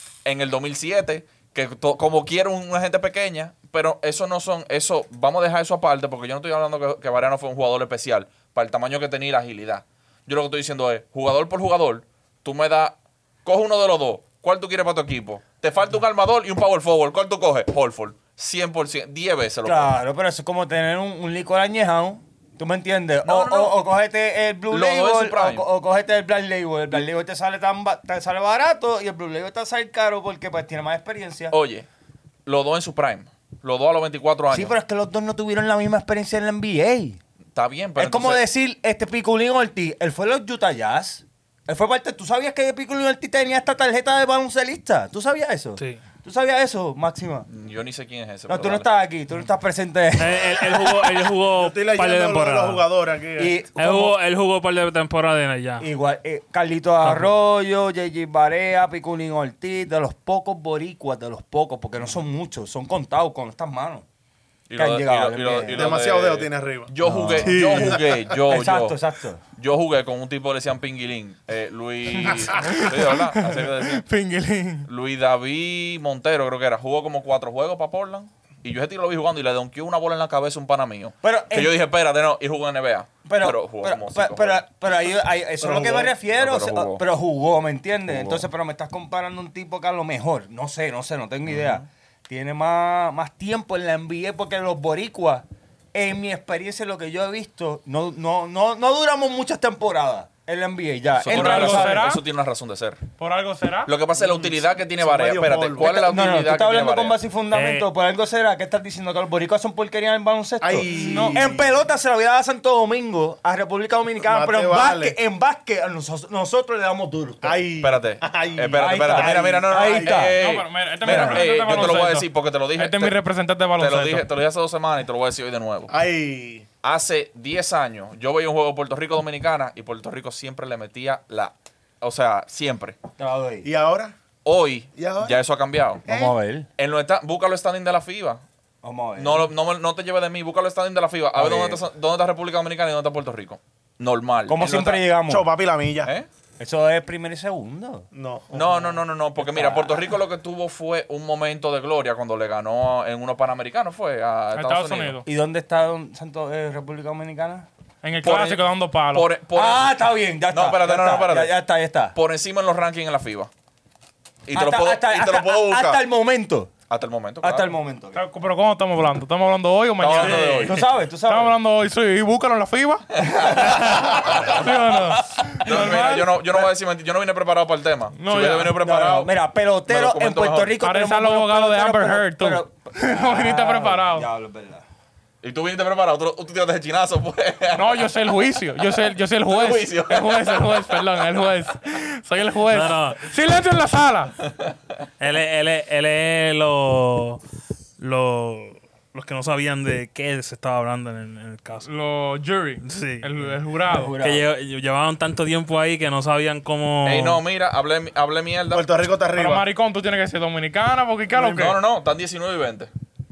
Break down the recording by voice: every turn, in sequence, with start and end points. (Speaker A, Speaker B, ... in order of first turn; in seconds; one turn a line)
Speaker A: 0.2-19.9
Speaker B: 19.6-31.5
Speaker A: 23.2-23.8
Speaker A: 24.7-25.6
Speaker A: 31.5-31.9
Speaker A: 32.5-34.7
Speaker B: 34.5-37.2
Speaker A: 37.5-38.4
Speaker B: 38.0-47.5
Speaker C: 45.8-46.0
Speaker A: 47.5-48.9
Speaker B: 48.5-50.9
Speaker C: 50.2-52.8
Speaker D: 51.4-53.5
Speaker B: 53.4-54.1
Speaker C: 53.8-55.9
Speaker B: 55.8-64.0
Speaker C: 57.0-57.3
Speaker A: 64.7-69.0
Speaker B: 64.7-65.9
Speaker D: 65.7-66.9
Speaker B: 67.0-67.9
Speaker C: 67.4-68.0
Speaker D: 67.8-68.1
Speaker B: 68.5-69.4
Speaker A: 69.6-74.0
Speaker E: 72.1-74.9
Speaker A: 74.9-84.6
Speaker B: 81.2-81.8
Speaker B: 83.2-102.1
Speaker A: 86.3-87.0
Speaker A: 88.1-88.4
Speaker A: 91.5-91.8
Speaker A: 101.2-103.0
Speaker E: 101.3-102.2
Speaker E: 103.2-103.9
Speaker A: 103.9-107.2
Speaker D: 104.2-106.1
Speaker B: 105.8-117.7
Speaker C: 107.5-107.8
Speaker D: 110.6-111.7
Speaker E: 110.9-111.4
Speaker D: 114.2-115.2
Speaker D: 117.4-120.2
Speaker A: 117.8-123.2
Speaker B: 118.8-120.3
Speaker E: 120.3-124.3
Speaker B: 121.0-121.5
Speaker A: 123.8-125.9
Speaker D: 125.9-126.6
Speaker A: 126.8-133.0
Speaker B: 133.2-133.7
Speaker D: 133.6-134.1
Speaker A: 134.4-136.1
Speaker D: 134.9-135.4
Speaker D: 136.1-136.3
Speaker B: 136.1-136.7
Speaker A: 136.8-138.4
Speaker B: 138.8-139.5
Speaker A: 139.2-145.0
Speaker B: 141.3-141.8
Speaker B: 144.5-145.5
Speaker D: 145.3-146.1
Speaker B: 146.6-148.1
Speaker D: 148.1-148.9
Speaker A: 148.5-155.2
Speaker B: 149.4-150.1
Speaker E: 154.5-155.2
Speaker B: 155.2-157.7
Speaker E: 158.0-159.3
Speaker A: 158.2-159.9
Speaker B: 159.5-162.1
Speaker A: 160.5-161.5
Speaker A: 162.1-163.5
Speaker A: 164.5-166.0
Speaker B: 164.5-166.7
Speaker A: 166.9-167.7
Speaker B: 167.4-168.2
Speaker E: 168.1-170.7
Speaker A: 170.0-170.8
Speaker C: 170.2-170.7
Speaker B: 170.6-171.6
Speaker E: 171.3-176.3
Speaker A: 173.1-179.3
Speaker B: 175.7-176.7
Speaker E: 178.2-178.7
Speaker B: 178.7-184.8
Speaker A: 179.9-180.7
Speaker E: 180.8-184.2
Speaker A: 185.4-188.1
Speaker E: 187.7-194.3
Speaker A: 189.4-191.2
Speaker C: 192.7-193.2
Speaker C: 195.2-197.4
Speaker C: 198.0-201.9
Speaker E: 201.8-204.1
Speaker C: 202.8-203.3
Speaker B: 203.9-204.4
Speaker C: 204.2-207.4
Speaker A: 207.0-208.9
Speaker D: 208.7-209.7
Speaker E: 209.3-211.8
Speaker A: 211.3-212.9